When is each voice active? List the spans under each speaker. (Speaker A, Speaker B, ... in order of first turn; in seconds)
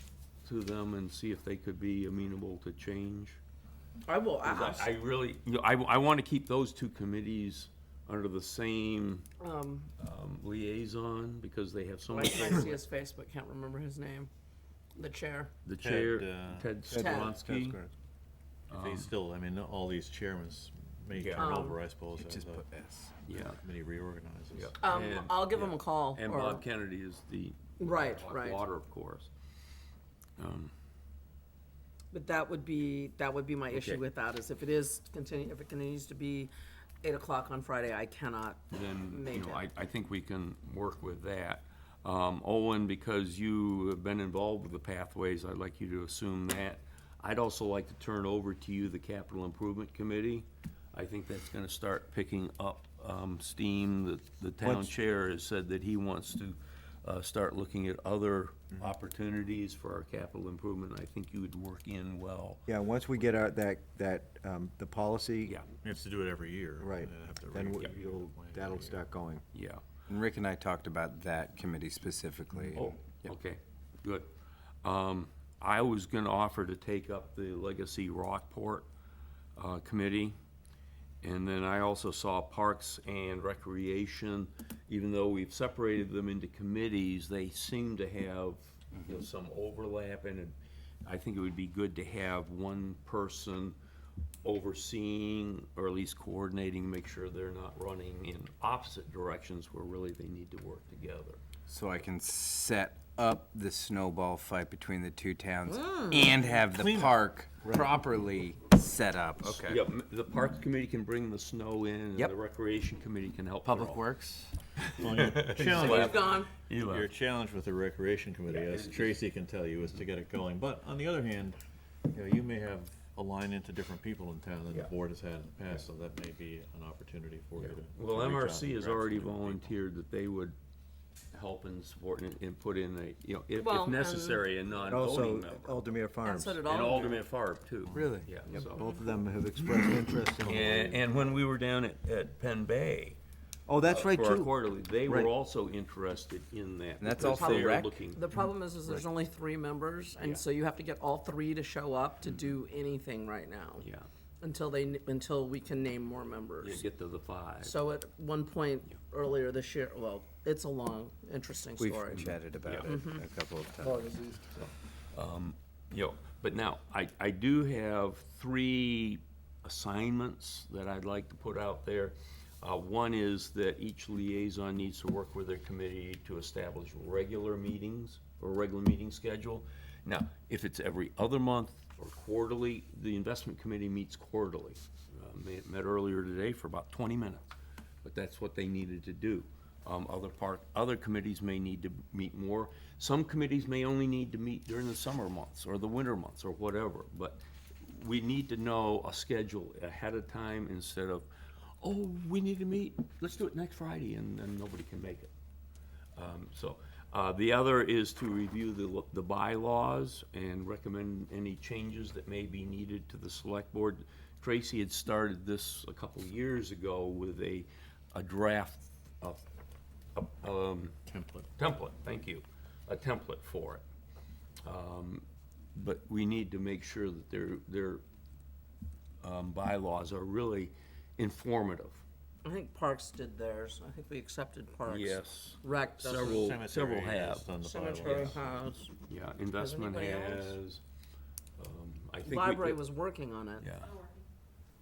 Speaker A: 0.4-3.4, 4.4-9.3, 10.0-12.7, 15.7-17.8, 18.7-19.1, 21.1-21.5, 23.2-23.6, 24.5-29.3, 30.4-30.7, 33.7-34.0, 38.7-62.6, 69.5-69.8, 72.8-74.3, 74.8-78.9, 79.6-80.4, 81.2-90.5, 91.0-93.8, 94.4-101.4, 109.4-114.0, 114.9-117.1, 118.5-119.2, 127.6-130.6, 131.3-135.9, 136.6-138.9, 140.4-143.2, 143.8-148.3, 153.8-154.1, 156.6-157.8, 162.7-162.9, 164.6-201.3, 201.8-205.3, 206.2-219.4, 220.2-221.0, 221.6-223.8, 224.6-228.0, 229.2-232.0, 234.9-237.5, 238.0-238.4, 239.1-240.8, 241.6-242.8, 243.6-244.0
Speaker B: 4.1-4.9, 9.4-9.9, 12.1-14.3, 15.0-15.5, 16.9-17.4, 21.4-21.8, 24.8-26.6, 27.8-28.6, 32.1-36.5, 37.0-39.7, 105.7-106.3, 115.5-116.5, 133.6-134.5, 136.2-137.2, 138.6-139.0, 147.2-153.8, 154.4-156.8, 157.6-163.2, 232.4-236.6, 237.6-238.9, 239.6-240.6, 242.2-243.7
Speaker C: 15.8-17.2, 18.7-22.7, 23.3-24.8, 65.8-69.0, 106.6-107.9, 115.0-121.6, 122.1-129.8, 221.1-221.5, 236.0-238.4
Speaker D: 16.9-17.9, 62.7-65.6, 66.8-69.4, 134.8-136.7, 138.5-141.0, 143.7-144.6, 164.0-164.4
Speaker E: 22.2-23.1, 70.1-73.3, 101.7-109.8, 113.6-114.6, 137.9-138.3, 147.0-148.0, 161.8-164.2